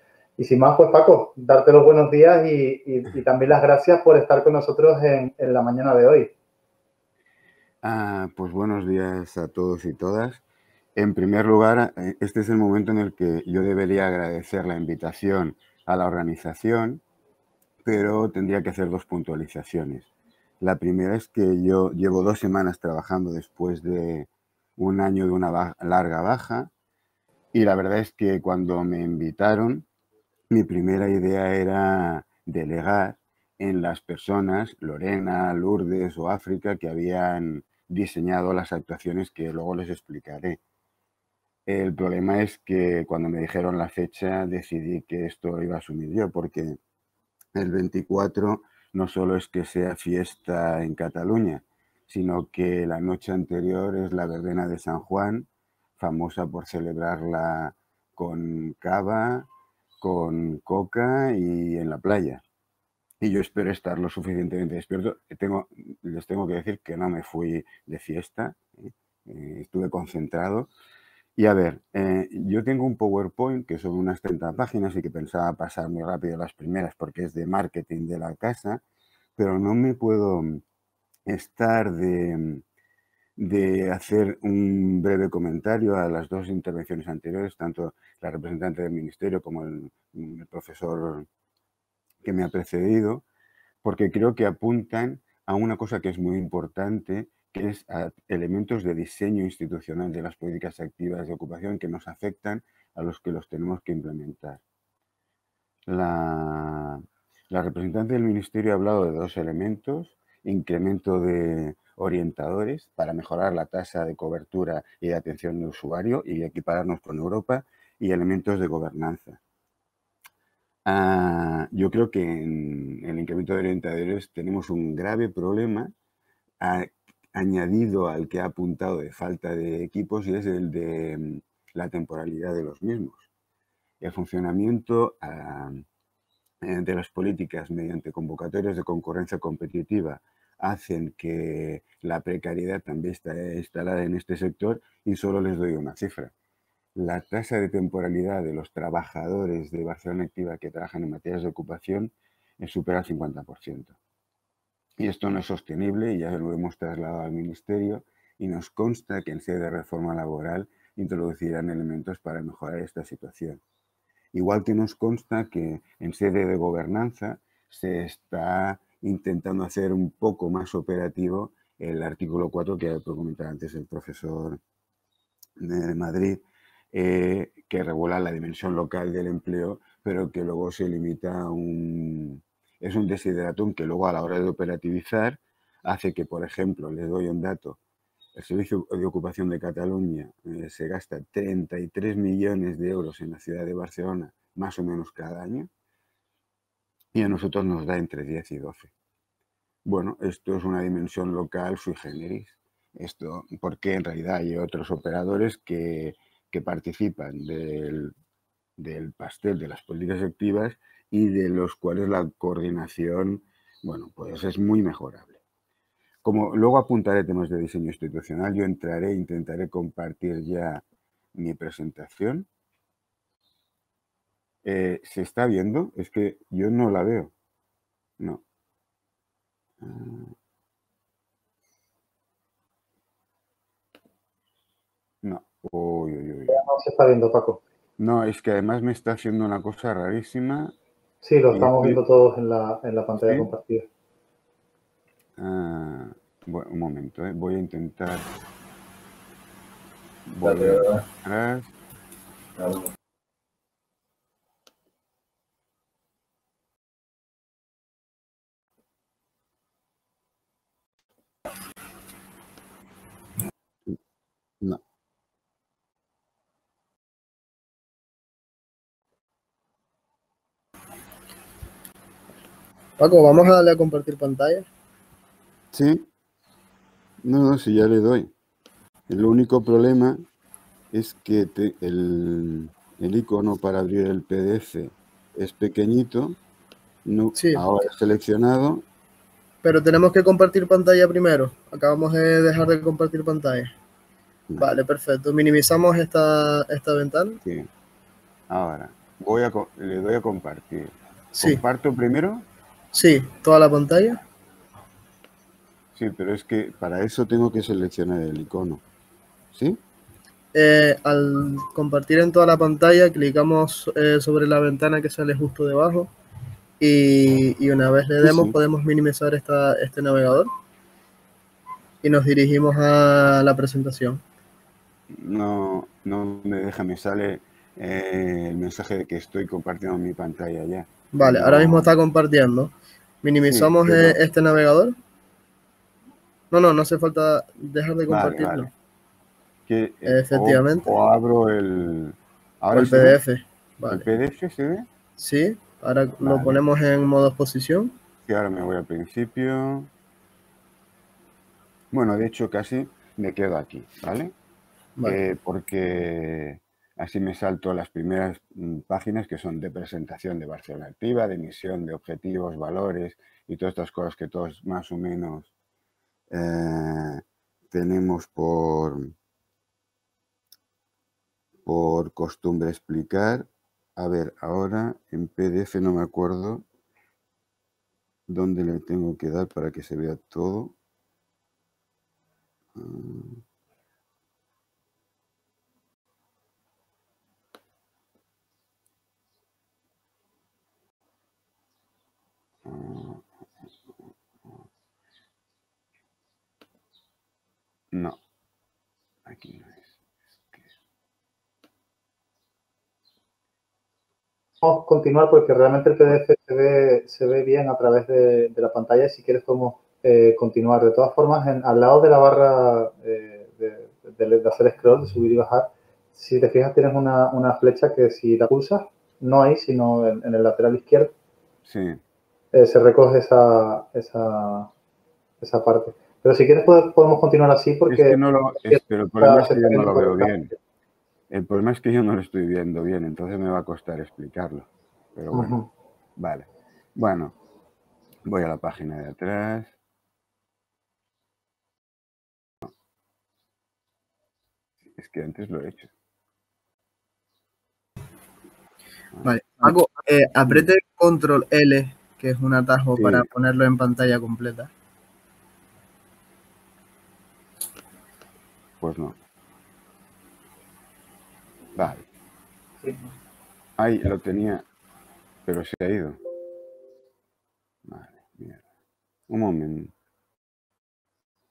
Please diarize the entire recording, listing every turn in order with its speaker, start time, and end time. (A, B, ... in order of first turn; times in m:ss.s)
0:00.4-0:06.3 A
0:07.8-0:10.4 B
0:11.0-0:17.0 B
0:17.8-0:26.7 B
0:27.5-0:29.8 B
0:30.5-0:40.6 B
0:41.6-0:46.8 B
0:47.5-0:59.5 B
1:00.0-1:02.4 B
1:03.2-1:10.7 B
1:11.4-1:18.8 B
1:19.4-1:20.6 B
1:21.3-1:22.6 B
1:23.4-1:31.3 B
1:32.2-1:33.2 B
1:33.8-1:44.6 B
1:45.9-1:59.4 B
2:00.8-2:05.9 B
2:06.6-2:13.3 B
2:14.0-2:15.8 B
2:16.6-2:26.3 B
2:26.9-2:34.0 B
2:35.0-2:43.6 B
2:44.3-2:54.6 B
2:55.6-3:07.8 B
3:08.3-3:15.7 B
3:17.1-3:18.9 B
3:19.8-3:28.1 B
3:28.8-3:35.4 B
3:36.2-3:42.5 B
3:44.6-3:47.3 B
3:49.8-3:50.3 B
3:55.2-3:56.6 B
3:56.5-3:57.6 A
3:58.0-4:00.7 B
4:01.2-4:03.9 A
4:01.5-4:02.0 B
4:03.2-4:03.5 B
4:05.4-4:08.3 B
4:10.2-4:11.7 B
4:33.0-4:34.7 C
4:35.7-4:36.1 B
4:37.2-4:38.3 B
4:39.1-4:40.2 B
4:40.9-4:46.4 B
4:47.0-4:48.8 B
4:47.4-4:47.6 C
4:49.6-4:53.7 C
4:54.6-4:57.4 C
4:57.4-4:57.7 B
4:58.5-5:02.4 B
5:02.9-5:04.2 C
5:05.9-5:08.8 B
5:09.5-5:09.8 B
5:10.5-5:16.1 C
5:16.8-5:20.5 C
5:18.2-5:18.6 B
5:22.0-5:24.2 C
5:25.1-5:31.9 B
5:31.1-5:34.9 C
5:33.4-5:34.2 B
5:36.5-5:38.7 C
5:38.1-5:38.7 B
5:39.7-5:43.2 B
5:40.0-5:41.0 C
5:42.7-5:44.1 C
5:43.9-5:44.9 B
5:45.2-5:48.0 C
5:46.2-5:46.6 B
5:48.2-5:49.9 B
5:51.9-5:54.3 B
5:55.0-6:05.5 B
6:06.3-6:09.1 B
6:11.6-6:16.6 B
6:18.3-6:20.7 B
6:22.7-6:23.4 B
6:32.6-6:33.2 B
6:37.9-6:38.2 B
6:39.2-6:40.0 B
6:44.6-7:01.1 A
7:01.6-7:02.0 B
7:02.5-7:04.7 A
7:05.4-7:10.4 A
7:07.9-7:10.5 B
7:11.3-7:15.6 B
7:15.3-7:15.7 A
7:16.2-7:17.4 B
7:18.2-7:19.7 B
7:24.8-7:25.9 B
7:29.1-7:29.7 B
7:29.2-7:34.7 C
7:33.0-7:33.3 B
7:38.8-7:39.2 B
7:41.7-7:42.1 B
7:43.8-7:44.6 B
7:45.4-7:46.2 B
7:47.8-7:48.6 B
7:49.3-7:49.9 B